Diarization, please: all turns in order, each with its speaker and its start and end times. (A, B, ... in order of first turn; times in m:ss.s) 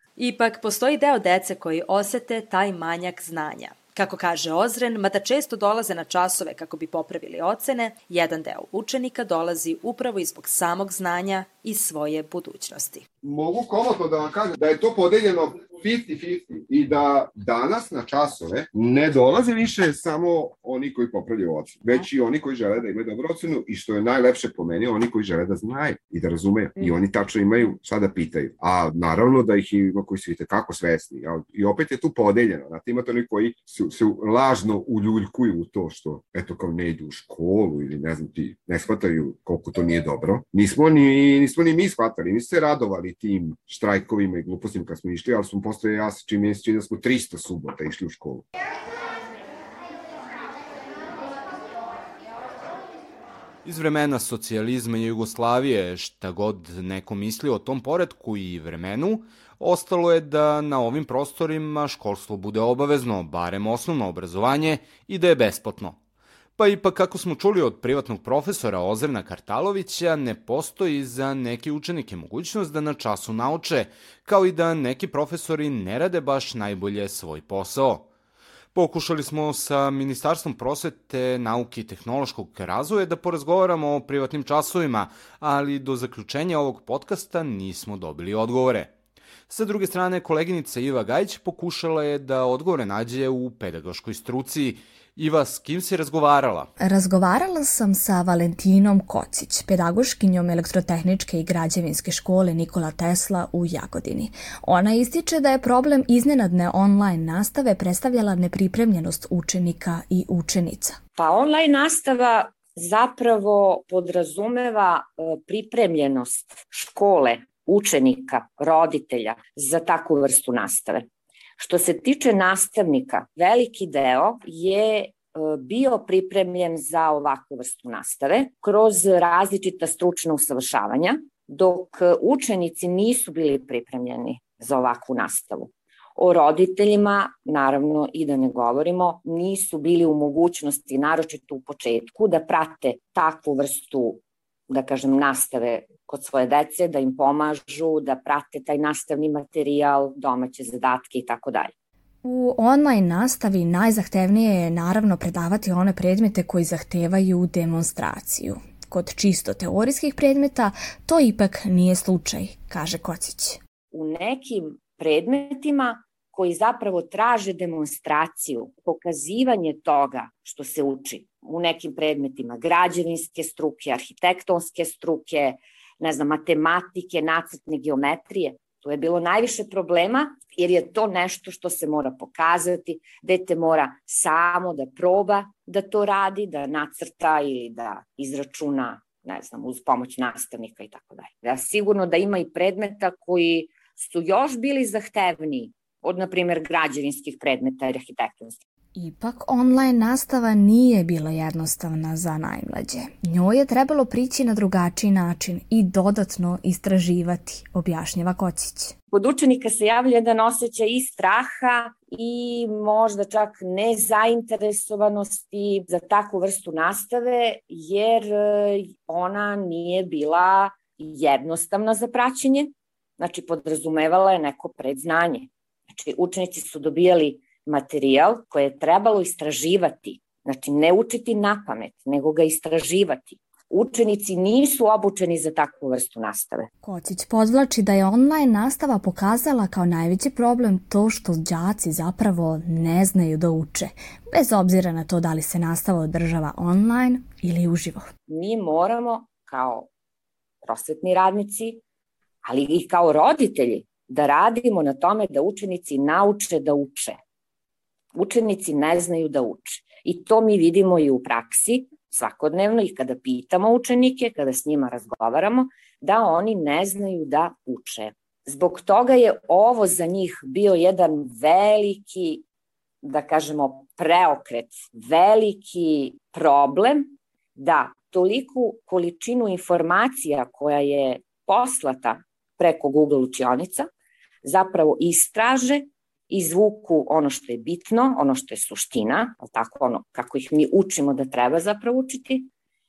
0:00.2-0:13.0 A
0:13.2-0:48.4 B
0:53.6-1:06.0 C
1:06.6-1:18.1 C
1:18.7-1:28.9 C
1:29.5-1:36.7 C
1:36.8-1:51.0 D
1:51.2-2:01.0 E
2:01.6-2:31.7 E
2:32.2-2:43.6 D
2:43.9-3:18.6 E
3:18.9-3:28.9 D
3:29.1-3:56.7 E
3:56.8-4:08.1 D
4:08.3-4:09.9 E
4:10.6-4:11.8 E
4:12.4-4:17.2 E
4:18.1-4:32.4 E
4:33.0-4:43.9 E
4:44.4-4:52.5 E